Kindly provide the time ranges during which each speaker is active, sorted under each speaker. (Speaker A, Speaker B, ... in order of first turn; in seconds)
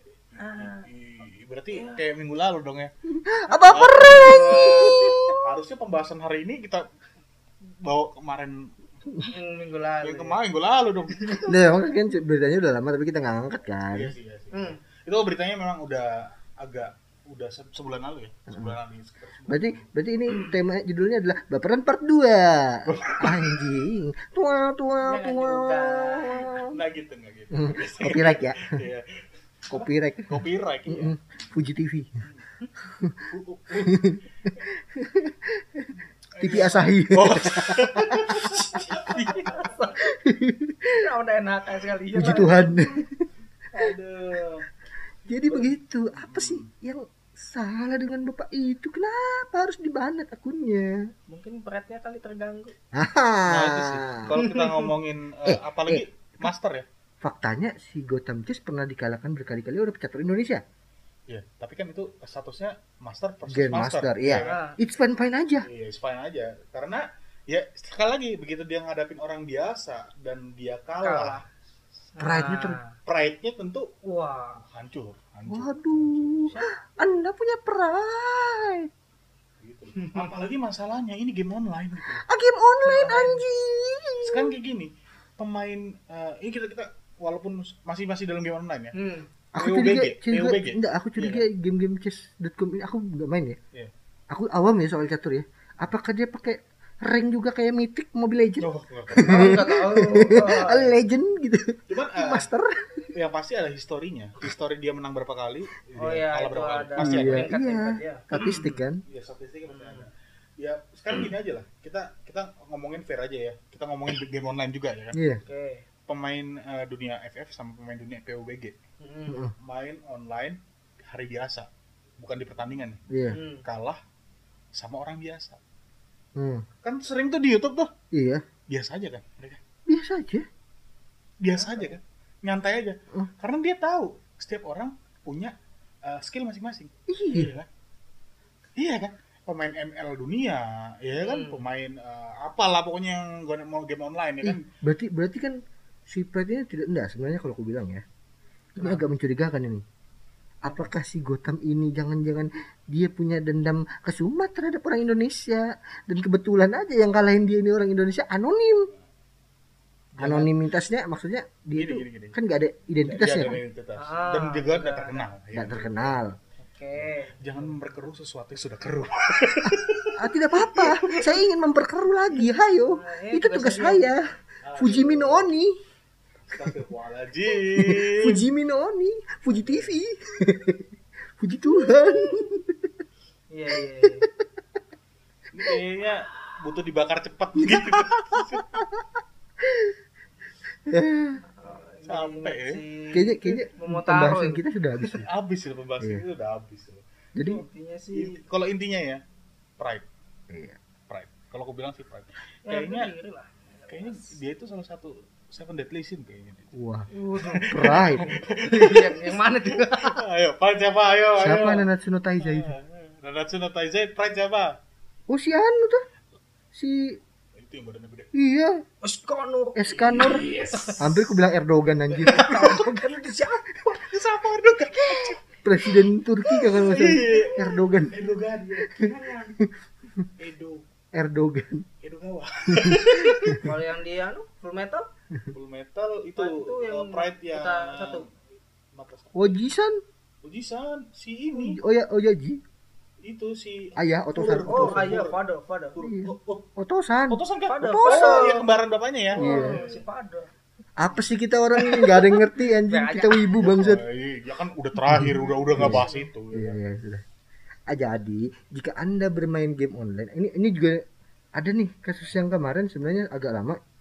Speaker A: 0.3-2.9, 3.7-6.8, 7.8-8.7, 10.0-11.6, 13.9-19.9, 22.9-23.6, 26.6-29.1, 29.7-31.1, 33.3-34.1, 36.4-39.6, 43.7-44.7, 45.5-46.6, 53.5-56.9, 61.3-64.6, 65.6-71.4, 73.0-73.9, 74.6-76.6, 79.6-82.2, 84.2-88.9, 89.5-91.4, 98.6-99.3, 101.9-102.5, 103.1-107.5, 109.1-115.2, 116.1-118.8, 119.6-121.7, 122.2-123.0, 123.6-124.0, 124.7-125.6, 126.8-127.9, 128.7-129.6, 131.4-135.5, 136.1-137.7, 138.8-144.6, 160.1-160.6, 161.7-162.3, 163.0-166.2, 167.4-171.4, 174.6-175.5, 176.5-178.4, 179.6-179.9, 185.5-188.8, 192.1-192.8, 195.2-197.0, 198.1-199.2, 199.8-200.0, 201.1-203.1, 203.9-206.7, 207.4-214.7, 217.6-218.3, 220.1-221.1, 222.2-223.0, 223.7-225.4, 226.0-228.9, 230.4-230.8, 232.0-233.6, 235.5-238.2, 238.9-239.6, 240.4-241.8, 243.2-245.4, 245.9-246.7, 247.3-250.0, 253.6-256.8
Speaker B: 0.4-0.8, 1.7-2.0, 3.5-4.4, 9.3-10.4, 14.5-14.8, 25.0-26.5, 38.7-40.0, 40.9-42.7, 51.3-52.7, 54.4-54.9, 64.4-64.8, 71.0-71.5, 72.2-72.9, 74.0-74.6, 80.0-80.3, 82.8-83.4, 88.9-89.3, 99.2-101.0, 106.0-108.7, 109.7-110.0, 115.4-115.8, 119.0-119.4, 123.3-123.6, 141.2-141.6, 148.8-149.0, 164.0-165.3, 166.6-167.6, 172.9-174.2, 183.5-184.2, 191.5-195.2, 197.4-198.3, 202.6-204.3, 207.1-210.2, 219.0-221.0, 222.2-223.7, 228.9-229.5, 233.6-235.1, 236.4-238.2, 244.7-245.9, 247.7-248.7, 249.3-250.5, 252.9-253.6, 255.8-256.2
Speaker C: 3.1-5.4, 11.5-14.1, 19.5-26.6, 27.5-28.8, 29.7-32.1, 32.9-33.2, 33.8-39.0, 40.0-40.9, 42.1-43.2, 45.3-51.0, 52.9-54.4, 55.5-56.5, 57.2-60.6, 63.5-65.7, 72.2-72.8, 75.5-78.9, 82.1-84.5, 89.5-93.6, 94.3-103.1, 107.0-109.0, 115.1-115.4, 119.3-119.5, 123.1-123.4, 126.4-126.7, 128.1-128.4, 129.9-130.4, 137.1-137.5, 144.4-145.6, 146.1-148.0, 148.8-149.8, 150.6-158.9, 160.2-163.6, 165.5-166.3, 170.2-174.2, 174.8-175.7, 177.8-180.8, 181.4-182.9, 187.6-189.1, 189.6-189.9, 190.9-191.4, 193.1-195.3, 197.3-197.6, 200.5-200.8, 206.7-208.3, 211.4-212.7, 215.3-216.0, 216.7-217.2, 218.3-218.8, 219.7-220.4, 221.0-222.8, 225.6-228.2, 229.6-230.2, 231.1-231.8, 232.7-233.6, 239.3-240.0, 241.5-242.6, 244.0-245.2, 246.0-248.4, 249.4-249.8, 251.0-254.0, 255.1-257.2, 257.9-261.0, 261.6-263.8